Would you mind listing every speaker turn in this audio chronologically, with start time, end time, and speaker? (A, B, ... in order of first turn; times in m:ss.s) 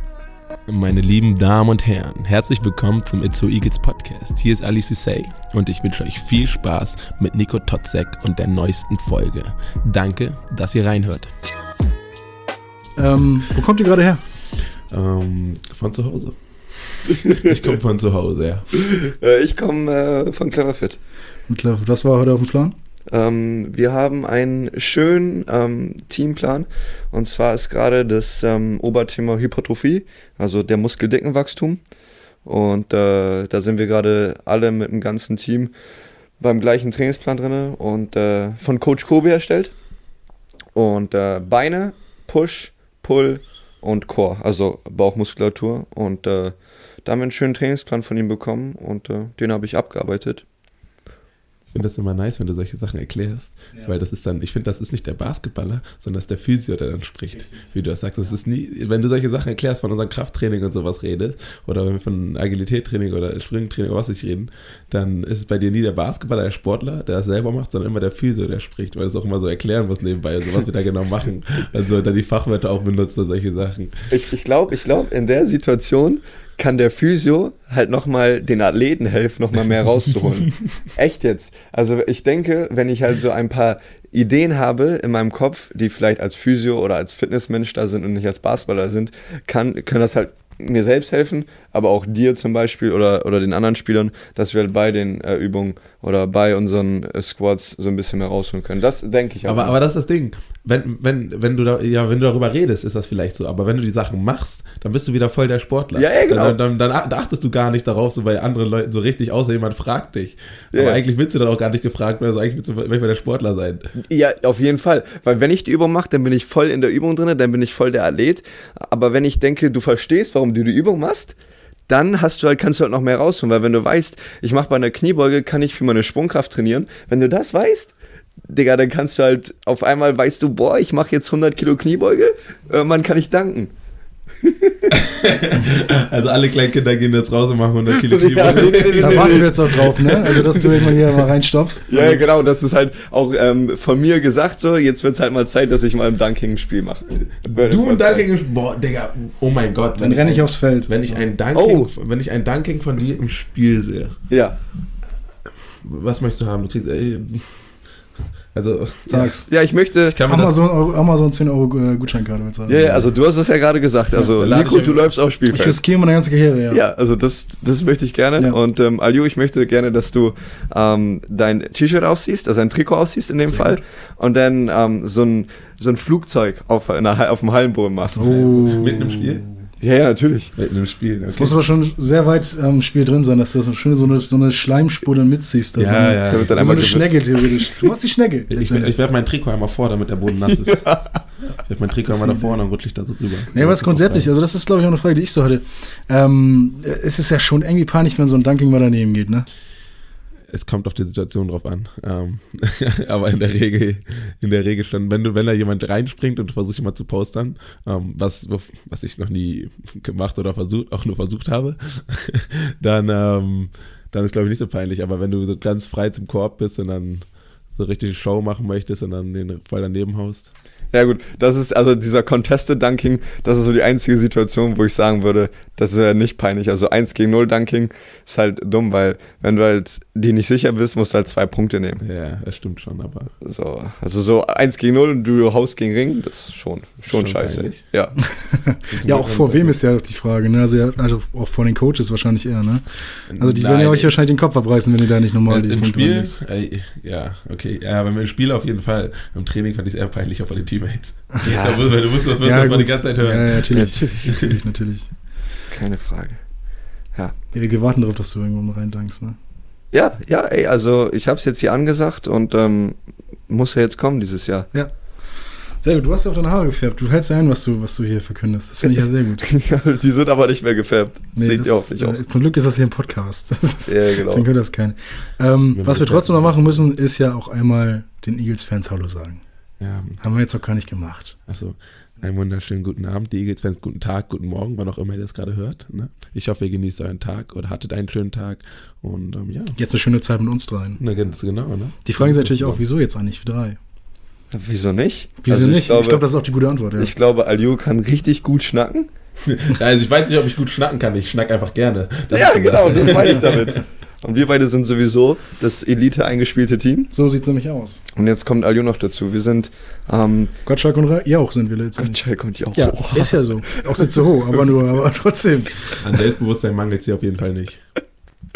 0:00.7-0:11.3 A
0:13.0-0:14.2 B
0:14.9-0:18.7 A
0:17.2-0:17.5 C
0:18.8-0:21.0 C
0:21.5-0:22.8 B
0:23.1-0:31.8 C
0:32.4-0:35.7 C
0:36.4-0:39.7 C
0:40.8-0:50.4 C
0:51.7-1:14.1 A
1:14.1-1:39.8 C
1:39.4-1:53.9 A
1:46.0-1:46.6 C
1:50.7-1:51.0 C
1:54.0-2:01.4 C
2:01.9-2:07.9 C
2:08.5-2:13.7 C
2:14.4-2:14.9 C
2:14.9-2:20.9 A
2:17.9-2:20.3 C
2:18.9-2:22.3 B
2:21.9-2:28.3 C
2:27.5-2:34.2 A
2:30.0-2:30.9 B
2:31.5-2:31.9 C
2:34.3-2:34.6 C
2:35.8-2:37.7 A
2:38.5-2:39.3 A
2:39.1-2:39.5 B
2:39.5-2:40.2 C
2:40.1-2:40.6 A
2:40.3-2:43.1 B
2:42.7-2:45.8 C
2:44.3-2:45.1 A
2:45.5-2:46.8 B
2:46.7-2:58.5 C
2:53.5-2:53.8 B
2:58.1-2:59.5 B
2:58.2-2:59.4 A
2:59.8-3:00.5 C
3:00.6-3:01.6 A
3:01.3-3:09.0 B
3:05.8-3:07.1 A
3:06.3-3:07.9 C
3:08.5-3:11.0 A
3:10.4-3:11.0 C
3:11.6-3:14.3 A
3:12.1-3:12.6 B
3:13.5-3:19.5 B
3:20.5-3:40.5 A
3:40.9-3:52.0 C
3:52.0-3:53.3 A
3:53.4-3:58.2 C
3:57.1-3:57.8 A
3:58.3-4:06.3 B
3:58.9-3:59.8 A
4:03.3-4:04.2 A
4:05.5-4:14.5 A
4:11.4-4:11.8 B
4:11.5-4:11.9 C
4:12.4-4:15.1 B
4:13.7-4:14.1 C
4:15.7-4:16.4 C
4:17.5-4:19.4 B
4:19.9-4:23.0 C
4:23.5-4:24.7 C
4:25.8-4:29.5 B
4:29.4-4:32.2 C
4:31.4-4:39.4 B
4:33.9-4:34.4 C
4:35.8-4:36.8 A
4:39.8-4:40.2 A
4:40.2-4:41.4 B
4:41.5-4:49.8 A
4:49.8-4:51.0 B
4:51.0-4:52.8 A
4:52.0-4:53.8 B
4:54.5-4:56.2 C
4:55.4-4:57.1 B
4:57.0-4:59.1 C
4:59.4-5:03.8 A
5:02.3-5:07.1 C
5:07.1-5:08.0 B
5:08.2-5:10.5 C
5:10.7-5:16.2 B
5:12.0-5:14.1 C
5:16.0-5:17.8 A